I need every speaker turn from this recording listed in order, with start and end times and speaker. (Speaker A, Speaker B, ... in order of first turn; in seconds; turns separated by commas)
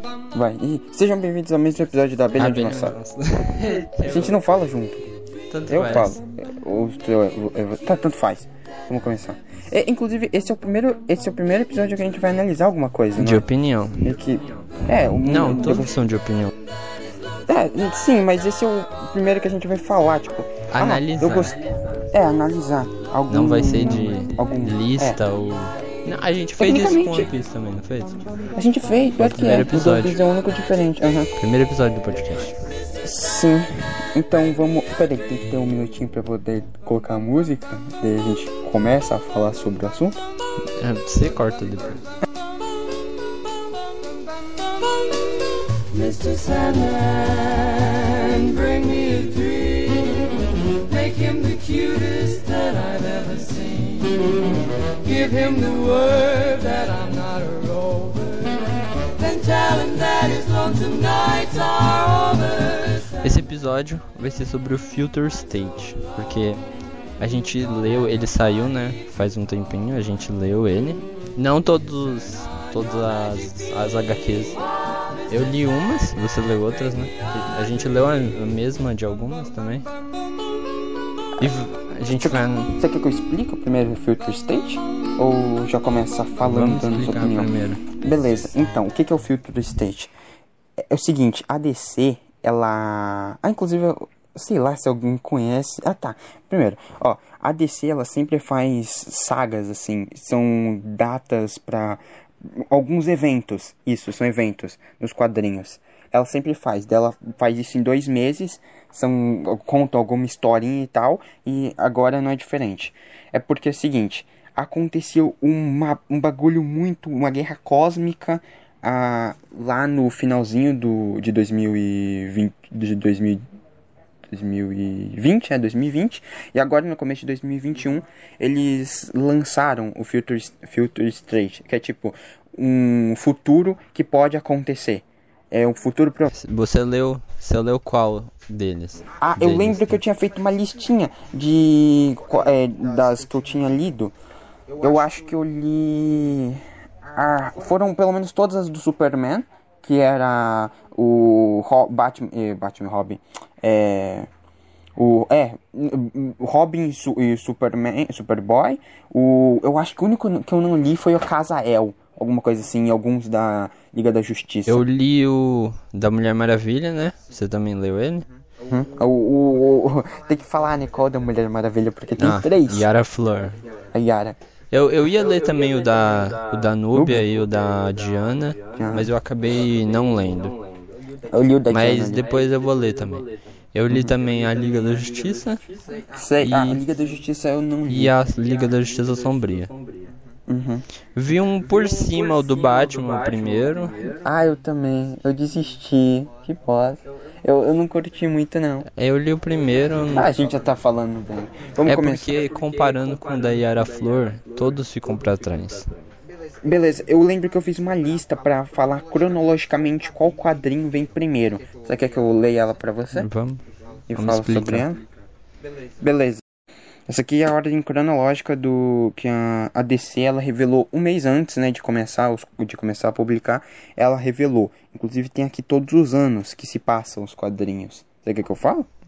Speaker A: 0.3-3.0, Speaker B: 2.4-4.4, Speaker A: 4.0-5.1, Speaker B: 5.5-6.2, Speaker A: 5.7-13.4, Speaker B: 13.2-14.0, Speaker A: 14.0-15.9, Speaker C: 14.3-14.7, Speaker B: 15.1-16.5, Speaker A: 17.5-25.2, Speaker B: 20.7-21.6, Speaker C: 21.5-22.1, Speaker B: 23.3-28.2, Speaker A: 26.6-27.3, Speaker A: 28.5-31.3, Speaker B: 29.2-30.2, Speaker B: 31.4-32.6, Speaker A: 33.0-40.2, Speaker B: 40.8-42.0, Speaker C: 44.5-63.1, Speaker B: 63.2-66.6, Speaker B: 67.2-74.6, Speaker C: 74.9-75.6, Speaker B: 75.3-79.9, Speaker C: 77.1-78.2, Speaker C: 79.5-79.8, Speaker B: 81.4-82.8, Speaker A: 82.2-90.1, Speaker B: 86.4-87.8, Speaker A: 90.8-123.4, Speaker A: 124.3-136.3, Speaker B: 136.3-140.0, Speaker A: 139.2-144.1, Speaker A: 144.7-154.3, Speaker A: 154.9-164.8, Speaker B: 164.7-168.3, Speaker A: 168.7-172.9, Speaker B: 172.2-173.6, Speaker A: 173.9-174.4, Speaker B: 174.7-180.5, Speaker C: 175.0-179.0, Speaker A: 176.9-177.2, Speaker A: 178.8-179.1, Speaker C: 179.5-181.3, Speaker A: 181.3-182.2, Speaker B: 181.7-185.6, Speaker C: 182.0-183.5, Speaker C: 184.1-186.1, Speaker A: 186.1-188.1, Speaker B: 186.4-186.8, Speaker B: 187.9-189.7, Speaker C: 188.2-190.1, Speaker A: 190.5-190.8, Speaker B: 191.2-193.9, Speaker C: 191.4-194.3, Speaker A: 194.2-198.9, Speaker B: 198.9-200.3, Speaker C: 199.7-200.8, Speaker A: 200.1-202.3, Speaker B: 201.8-205.9, Speaker C: 202.3-206.1, Speaker A: 206.6-213.3, Speaker B: 213.1-213.6, Speaker A: 214.1-215.0, Speaker B: 214.1-214.9, Speaker A: 216.0-216.4, Speaker A: 217.1-228.9